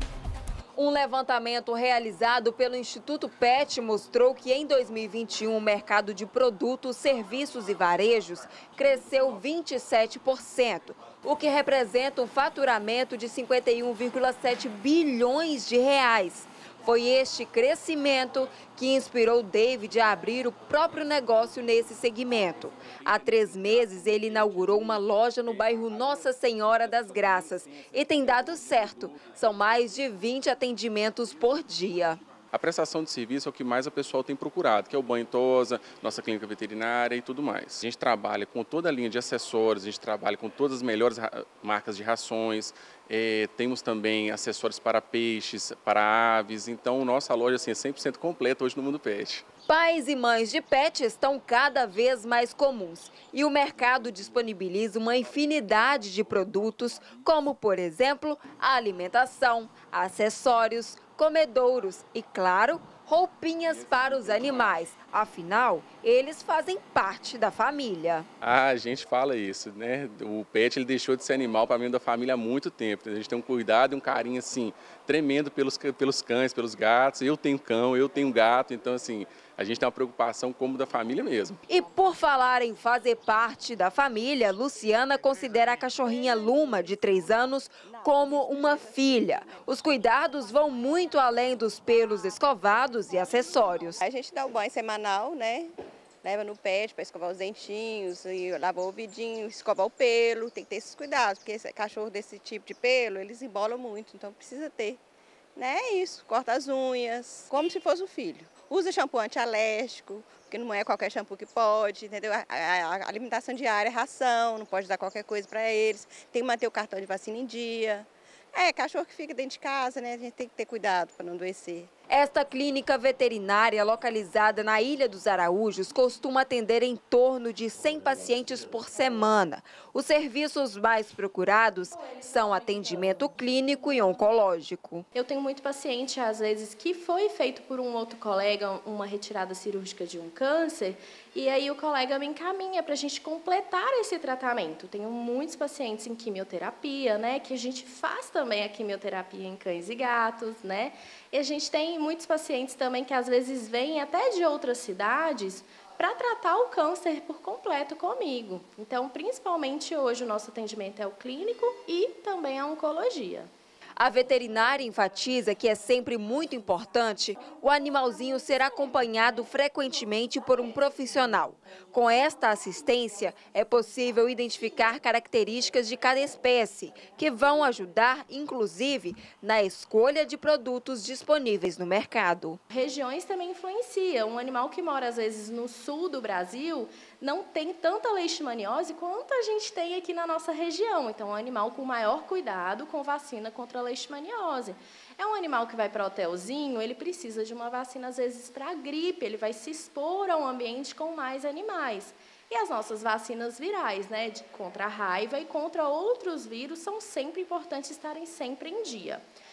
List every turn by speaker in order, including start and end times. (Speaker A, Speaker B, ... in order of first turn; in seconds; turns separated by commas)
Speaker A: 0.8-32.2, Speaker B: 32.5-49.4, Speaker A: 49.7-68.3, Speaker B: 68.4-81.6, Speaker A: 81.7-94.0, Speaker C: 87.9-89.5, Speaker C: 94.0-95.7, Speaker C: 96.2-105.0, Speaker C: 105.5-121.9, Speaker A: 122.1-135.0, Speaker D: 135.1-163.5, Speaker A: 164.0-182.6, Speaker D: 182.7-209.2